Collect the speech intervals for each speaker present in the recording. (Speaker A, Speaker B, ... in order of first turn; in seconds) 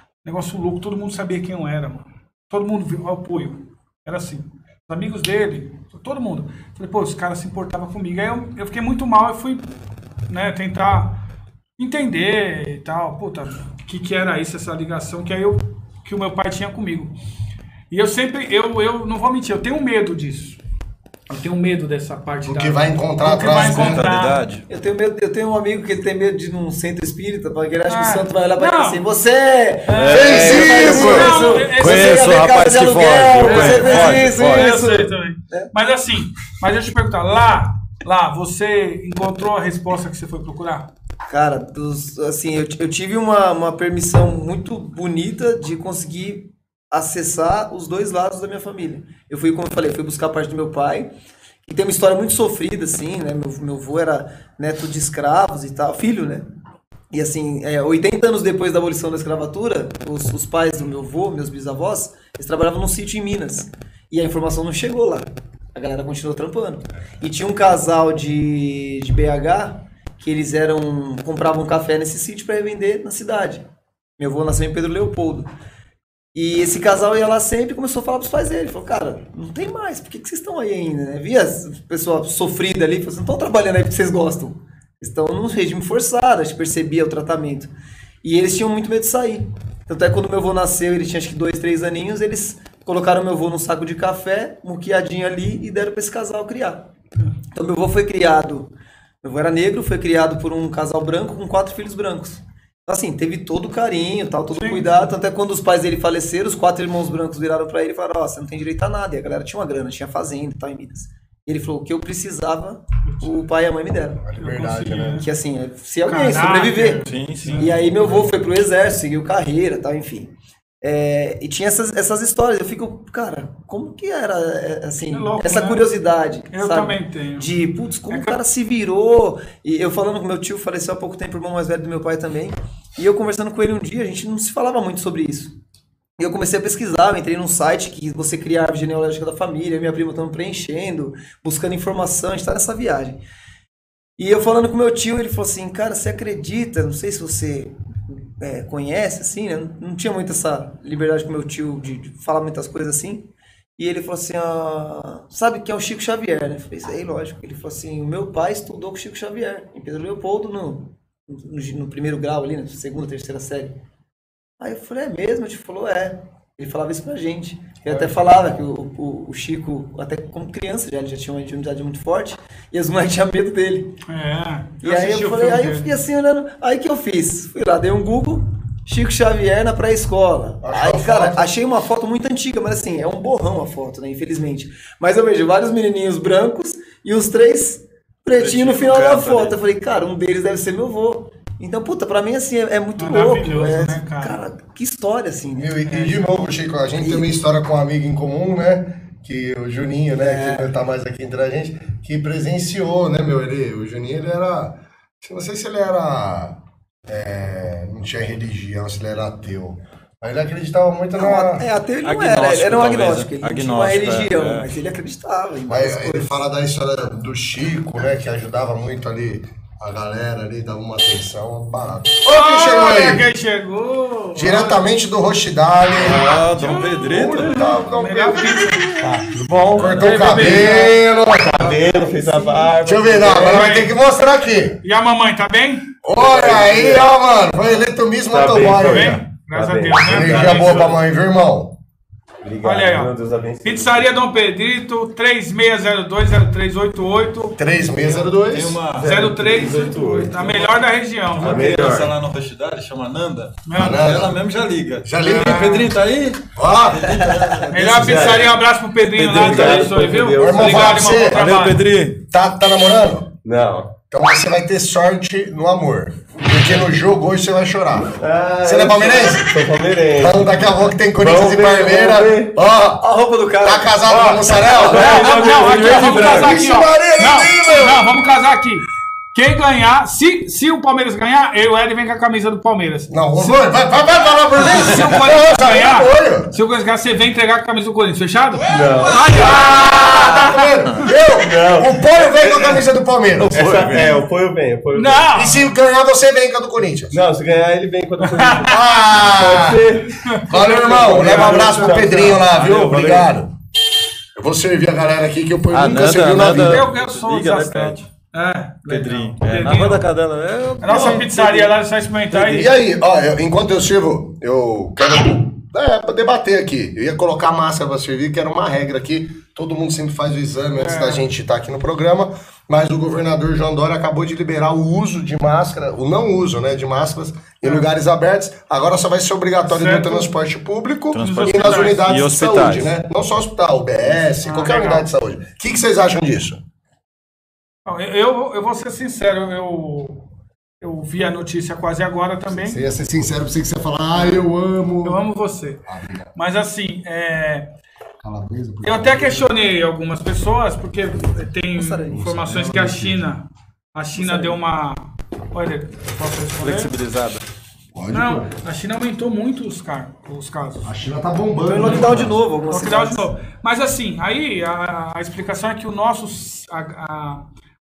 Speaker A: 0.2-9.7, 10.3-11.2, 11.8-17.1, 17.9-20.6, 21.3-24.4, 27.9-29.0, 29.9-32.3, 33.4-40.9, 104.5-105.1, 113.1-113.4, 114.4-115.3, 116.0-117.8, 125.1-125.9, 126.5-127.5, 128.1-128.4, 174.1-175.9, 193.0-194.4, 222.2-224.8, 226.6-229.2, 229.8-231.0, 232.2-232.5, 233.4-233.9, 234.8-235.9, 238.8-240.9, 242.6-247.6, 249.0-251.8, 253.7-254.1, 255.3-255.9, 257.7-261.8, 274.8-278.8, 279.4-283.6, 284.6-291.1, 294.9-295.6, 298.2-299.0, 300.3-302.1, 306.6-310.1, 310.8-312.7, 320.8-321.2, 329.7-330.3, 331.2-332.1, 334.4-335.1, 337.9-340.2, 340.8-342.8, 345.0-345.8, 346.4-347.7, 348.8-356.9, 358.1-360.9, 361.8-362.1, 362.7-367.4
Speaker B: 22.4-24.0, 30.1-31.3, 114.2-115.2, 180.6-181.5, 195.6-211.7, 215.7-223.2, 224.3-226.3, 227.1-232.1, 232.8-234.8, 236.0-239.2, 240.0-241.8, 247.6-248.8, 253.8-254.4, 255.0-255.8, 256.6-257.2, 260.4-261.5, 262.3-263.3, 264.1-269.6, 270.2-273.0, 273.6-278.1, 283.1-286.5, 289.1-294.1, 295.3-297.2, 298.7-299.9, 300.5-303.5, 304.4-306.9, 312.3-336.6, 342.5-345.2, 345.9-346.3, 348.2-349.5, 352.1-353.2, 357.9-358.5, 360.9-362.4
Speaker C: 23.5-24.7, 29.9-34.7, 117.0-117.8, 188.4-189.6, 212.0-214.7, 226.0-227.5, 248.0-249.7, 250.3-250.8, 251.3-258.5, 259.2-260.1, 260.6-262.2, 274.9-276.5, 302.2-303.3, 305.7-308.1, 308.9-311.7, 331.1-333.0, 356.6-357.4
Speaker D: 24.7-35.7, 41.3-51.1, 51.7-56.5, 57.1-73.6, 74.2-75.5, 76.3-87.7, 88.2-96.8, 97.5-98.7, 99.2-114.2, 115.1-135.5, 136.2-143.2, 144.2-153.3, 153.8-163.7, 164.6-174.0, 174.8-195.8, 197.0-197.3, 200.2-200.7, 211.2-216.4, 257.1-257.6, 273.0-274.1, 351.3-352.2, 354.2-354.5, 361.7-363.3
Speaker E: 229.3-233.8, 236.1-237.1, 238.3-241.0, 242.4-244.1, 248.9-250.6, 251.4-252.1, 257.7-260.9, 263.4-263.9, 268.1-272.6, 274.1-276.6, 288.7-289.6, 291.0-292.8, 293.4-295.4, 297.1-302.4